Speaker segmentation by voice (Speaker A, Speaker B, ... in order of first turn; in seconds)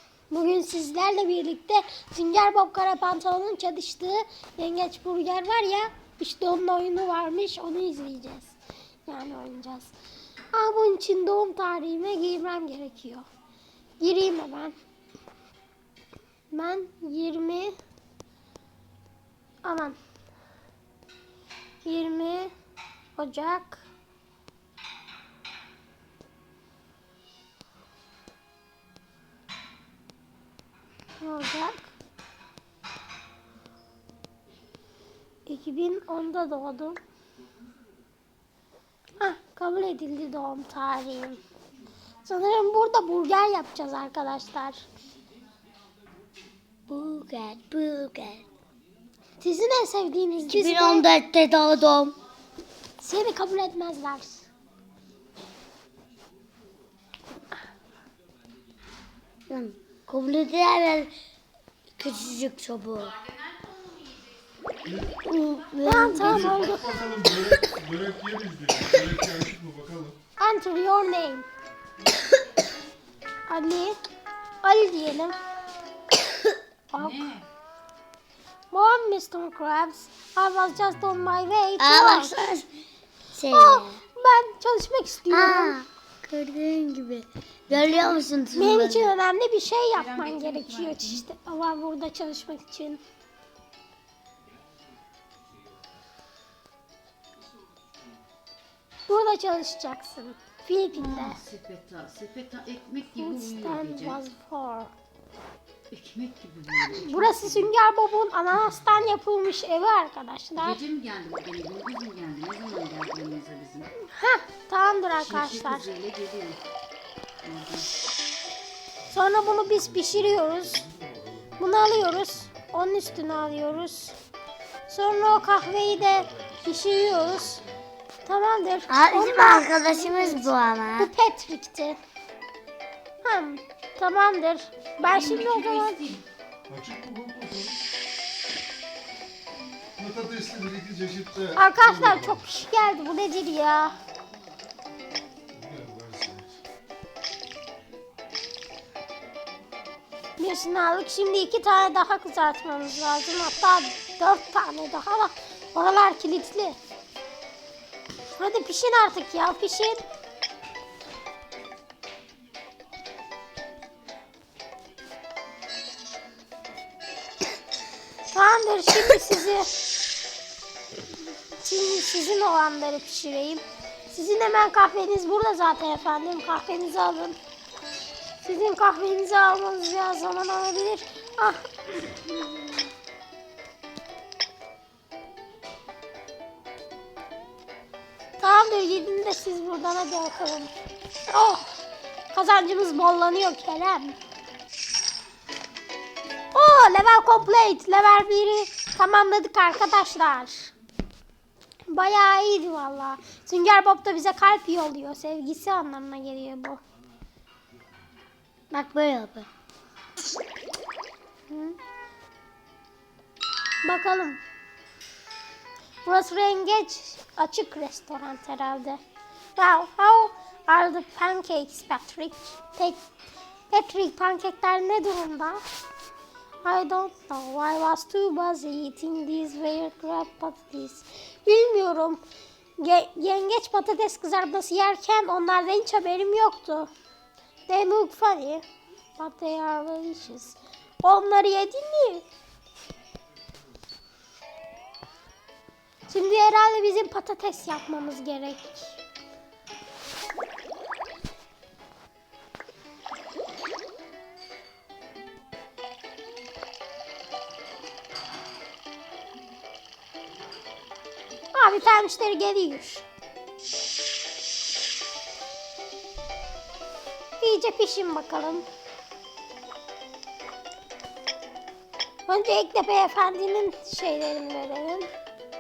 Speaker A: 0.3-9.9, 10.5-13.3, 14.0-14.8, 16.5-17.7, 19.6-20.0, 21.8-22.5, 23.2-23.9, 31.2-31.9, 35.5-37.0, 39.2-41.4, 42.2-44.8, 49.4-51.1, 53.0-54.5, 65.8-66.9, 70.4-71.5, 73.5-74.0, 74.6-75.4, 76.9-77.3, 78.7-82.4, 83.5-85.8, 88.5-93.0, 99.1-101.4, 103.2-104.9, 107.0-110.8, 114.0-115.9, 119.1-120.9, 121.6-124.2, 124.9-127.6, 128.2-132.0, 133.2-136.0, 141.6-143.9, 150.4-156.8, 158.3-160.0, 168.3-169.7, 171.6-177.4, 178.4-182.7, 188.4-190.7, 191.3-191.8, 192.3-194.2, 196.5-200.7, 201.9-206.8, 211.5-211.8, 213.8-214.4, 216.1-219.0, 219.6-223.0, 223.7-225.6, 226.6-232.2, 232.8-236.9, 237.7-238.6, 239.2-242.2, 246.1-249.0, 261.5-263.1, 267.4-268.7, 272.3-275.1
Speaker B: 46.9-48.4, 50.4-52.1, 59.5-61.1, 62.0-63.2, 65.1-66.6, 81.8-82.7, 83.3-84.0, 85.3-89.1, 128.9-131.1, 208.7-209.5
Speaker C: 63.3-64.3, 76.9-77.5, 89.9-91.3, 100.9-104.2, 105.9-107.7, 110.6-113.9, 115.2-116.6, 117.4-117.9, 135.0-136.2
Speaker D: 64.8-65.2, 66.2-70.2, 119.1-123.8, 125.1-127.8, 136.7-137.8, 140.0-142.5, 145.5-146.6